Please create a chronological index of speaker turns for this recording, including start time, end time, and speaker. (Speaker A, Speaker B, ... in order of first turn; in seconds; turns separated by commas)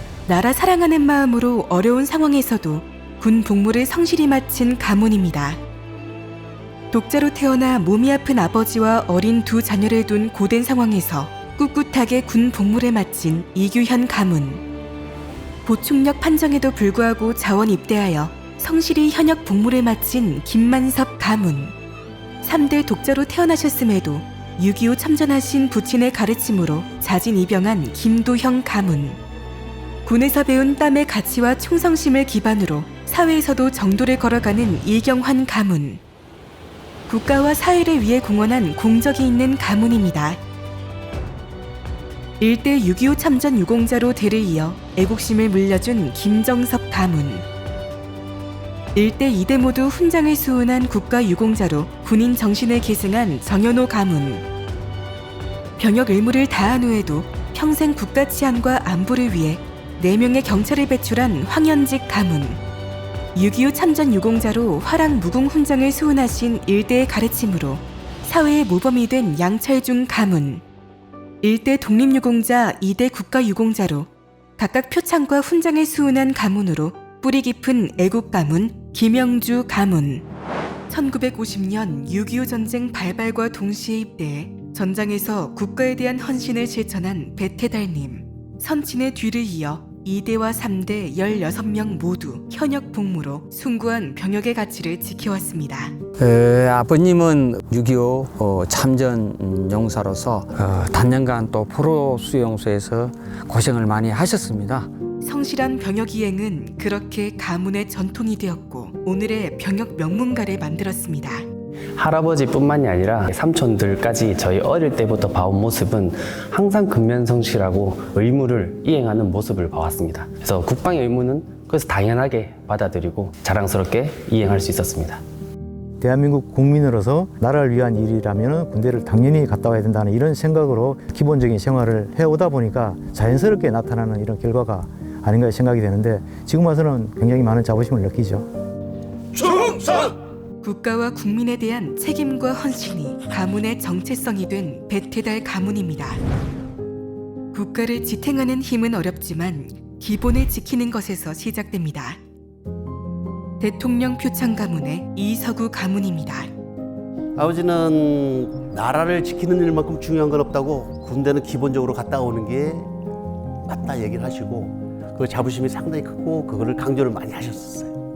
Speaker A: 0.3-5.6, Speaker A: 6.9-14.6, Speaker A: 15.6-21.7, Speaker A: 22.4-29.2, Speaker A: 30.0-36.0, Speaker A: 37.1-40.4, Speaker A: 42.4-47.4, Speaker A: 48.9-54.4, Speaker A: 55.8-62.6, Speaker A: 63.3-70.6, Speaker A: 71.4-80.2, Speaker A: 80.9-95.9, Speaker B: 96.2-104.9, Speaker A: 105.2-111.4, Speaker C: 111.9-125.2, Speaker D: 126.0-138.4, Speaker A: 140.6-146.2, Speaker A: 147.5-152.2, Speaker A: 153.6-156.5, Speaker E: 157.4-162.8, Speaker E: 163.7-167.9